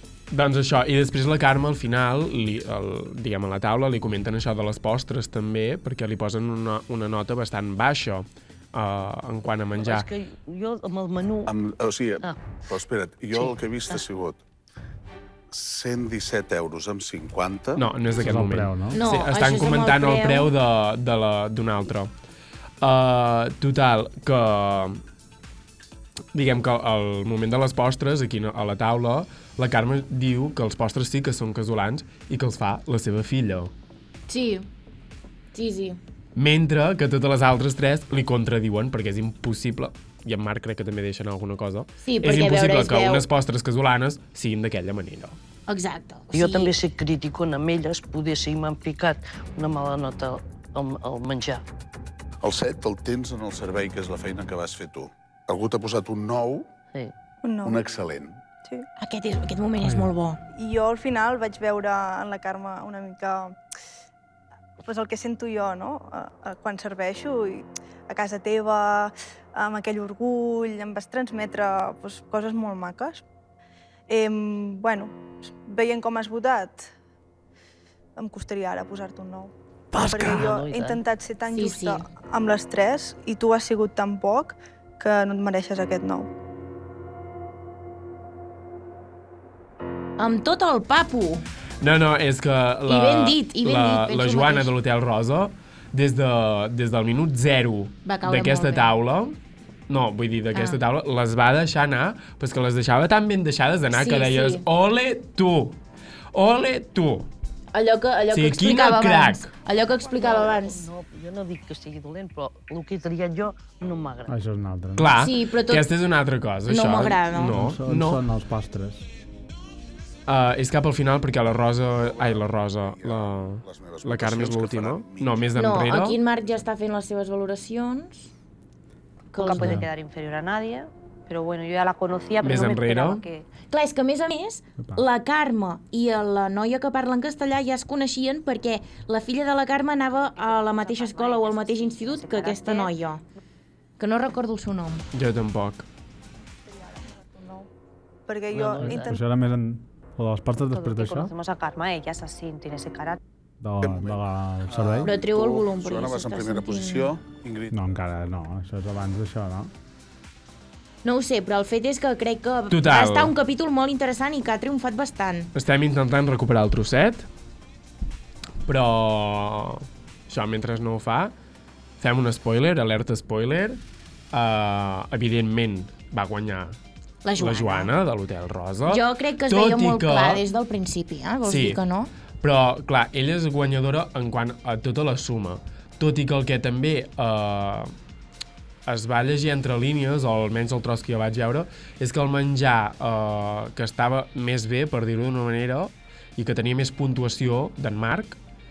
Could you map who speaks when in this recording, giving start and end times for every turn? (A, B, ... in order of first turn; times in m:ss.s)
0:00.3-0:10.1 A
0:09.8-0:11.5 B
0:11.4-0:14.4 C
0:13.3-0:14.0 B
0:15.5-0:17.8 C
0:17.8-0:22.1 A
0:18.2-0:19.0 D
0:18.9-0:20.5 E
0:22.8-0:25.0 A
0:26.3-0:33.7 A
0:34.3-0:34.7 E
0:35.5-0:36.0 E
0:36.4-0:45.4 A
0:42.0-0:43.2 E
0:45.7-0:46.7 E
0:46.3-0:51.6 B
0:52.4-0:56.7 C
0:57.4-0:57.8 F
0:57.6-0:58.4 C
0:59.0-1:00.4 E
0:59.8-1:00.1 D
1:00.6-1:03.6 F
1:04.8-1:13.2 F
1:14.1-1:16.9 F
1:18.2-1:26.3 F
1:19.9-1:20.5 D
1:20.3-1:21.0 B
1:21.5-1:22.0 E
1:30.2-1:31.4 E
1:31.8-1:39.4 A
1:32.9-1:34.7 E
1:38.0-1:38.9 E
1:39.9-1:45.8 A
1:40.5-1:40.8 E
1:43.9-1:44.6 E
1:46.3-1:47.3 A
1:47.7-1:50.9 E
1:48.3-1:49.5 A
1:50.0-1:54.3 B
1:54.3-1:55.1 D
1:55.0-1:58.2 A
1:55.2-1:55.9 E
1:56.7-1:57.5 E
1:57.4-1:59.1 D
2:00.3-2:06.2 A
2:02.0-2:05.5 C
2:05.5-2:08.3 E
2:09.3-2:09.8 E
2:09.4-2:13.5 G
2:09.6-2:09.9 D
2:12.4-2:13.2 A
2:13.7-2:23.2 E
2:14.8-2:15.0 D
2:20.2-2:22.9 G
2:24.0-2:25.0 E
2:25.1-2:25.8 A
2:26.6-2:27.7 F
2:28.3-2:29.2 F
2:28.5-2:29.1 B
2:28.8-2:31.3 D
2:30.7-2:33.2 G
2:33.6-2:35.1 D
2:33.8-2:37.9 C
2:35.0-2:37.1 E
2:37.7-2:39.7 D
2:41.0-2:45.5 E
2:42.7-2:43.3 A
2:45.5-2:47.3 A
2:48.6-2:51.3 A
2:52.0-2:53.8 A
2:54.3-2:56.8 A
2:57.2-2:57.9 E
2:57.4-3:00.4 A
2:58.9-3:02.1 E
3:01.4-3:01.8 A
3:02.4-3:07.9 A
3:08.8-3:18.4 A